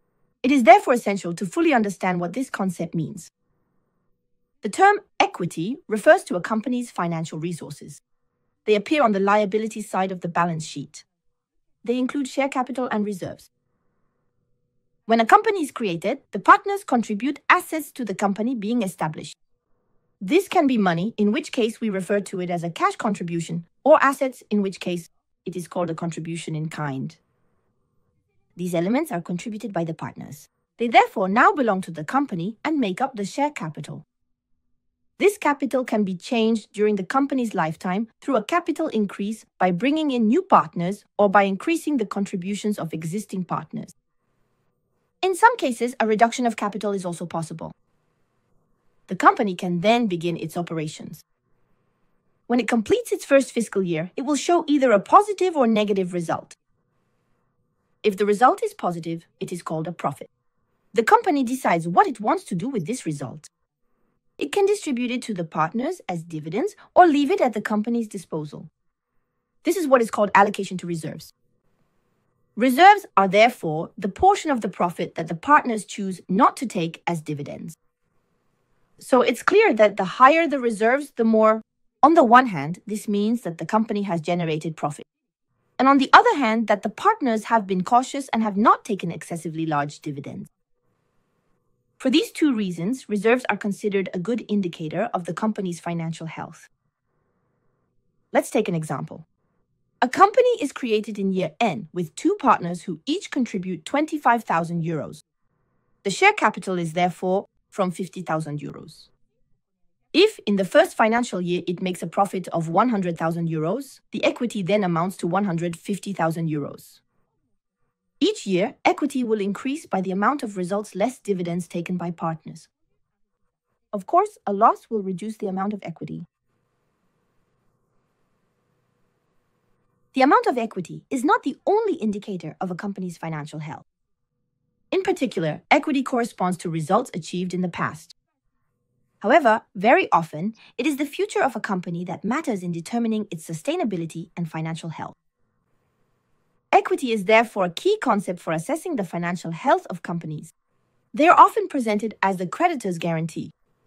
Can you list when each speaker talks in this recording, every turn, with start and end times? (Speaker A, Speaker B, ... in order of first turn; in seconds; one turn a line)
Speaker A: 0.4-3.3
Speaker A: 4.6-8.0
Speaker A: 8.7-11.1
Speaker A: 11.8-13.5
Speaker A: 15.1-19.4
Speaker A: 20.2-27.2
Speaker A: 28.6-34.0
Speaker A: 35.2-43.9
Speaker A: 45.2-47.7
Speaker A: 49.1-51.2
Speaker A: 52.5-56.6
Speaker A: 58.0-60.3
Speaker A: 60.9-63.5
Speaker A: 64.4-68.7
Speaker A: 69.6-71.3
Speaker A: 72.6-77.8
Speaker A: 79.0-85.1
Speaker A: 85.8-90.5
Speaker A: 92.0-96.7
Speaker A: 98.3-99.2
Speaker A: 100.0-105.2
Speaker A: 106.0-109.1
Speaker A: 110.1-117.0
Speaker A: 118.2-122.7
Speaker A: 123.9-126.3
Speaker A: 130.1-133.8
Speaker A: 134.9-138.2
Speaker A: 139.2-145.2
Speaker A: 146.7-150.5
Speaker A: 151.1-153.5